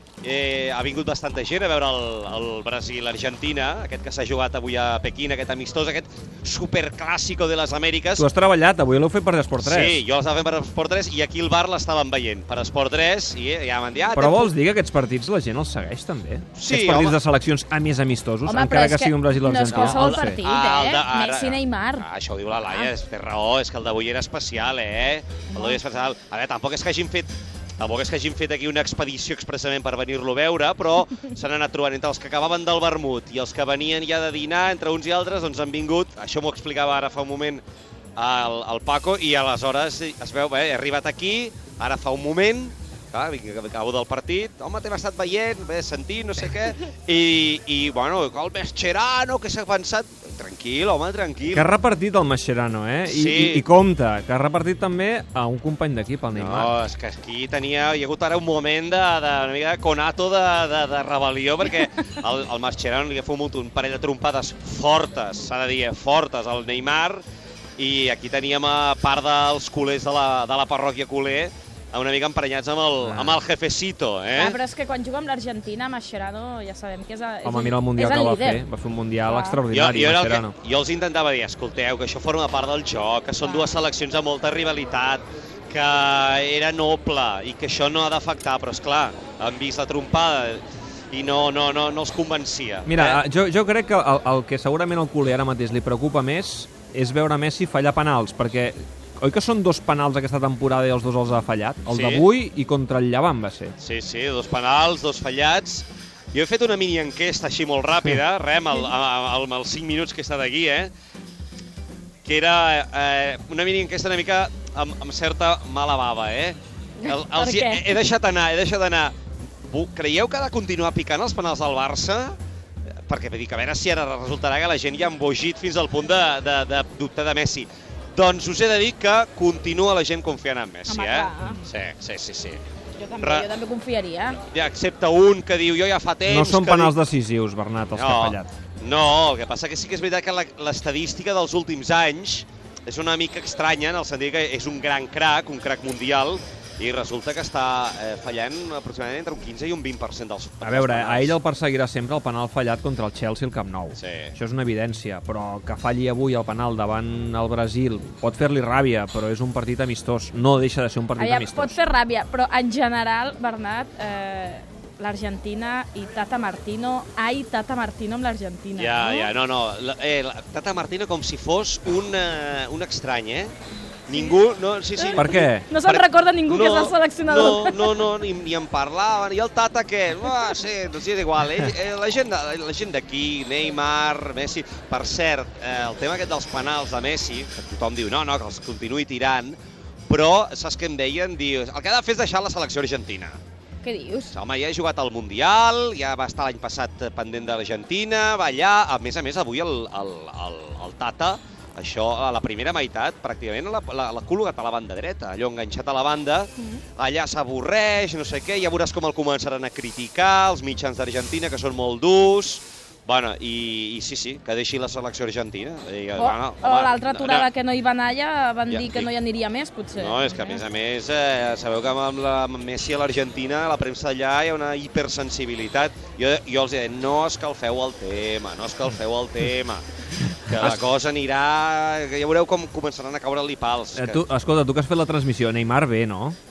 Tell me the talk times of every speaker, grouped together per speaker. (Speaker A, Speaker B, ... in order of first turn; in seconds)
Speaker A: 0.2-8.3, 9.6-14.5, 16.6-17.2, 19.7-37.6, 38.2-51.7, 53.1-53.6, 56.3-67.2, 67.8-74.6, 79.7-93.2, 101.9-102.2, 103.8-110.9, 112.2-119.2, 119.7-122.4, 123.1-132.6, 133.2-133.5, 134.5-137.0, 137.9-151.4, 154.0-154.3, 168.8-173.5, 174.1-193.4, 194.3-217.5, 218.7-219.1, 220.0-229.8, 230.4-234.2
Speaker B: 8.2-10.0, 14.1-20.4, 51.5-56.7, 73.0-73.4, 77.5-80.5, 92.9-103.8, 136.3-138.5, 150.6-161.7, 175.2-175.7, 230.5-230.8, 233.9-236.4
Speaker C: 18.5-22.1, 22.7-22.9, 25.5-25.8, 74.3-78.6, 79.2-79.6, 83.4-83.7, 117.0-118.0, 130.9-131.7, 133.0-134.4, 161.2-169.3, 175.0-178.0, 193.8-194.3, 216.2-220.6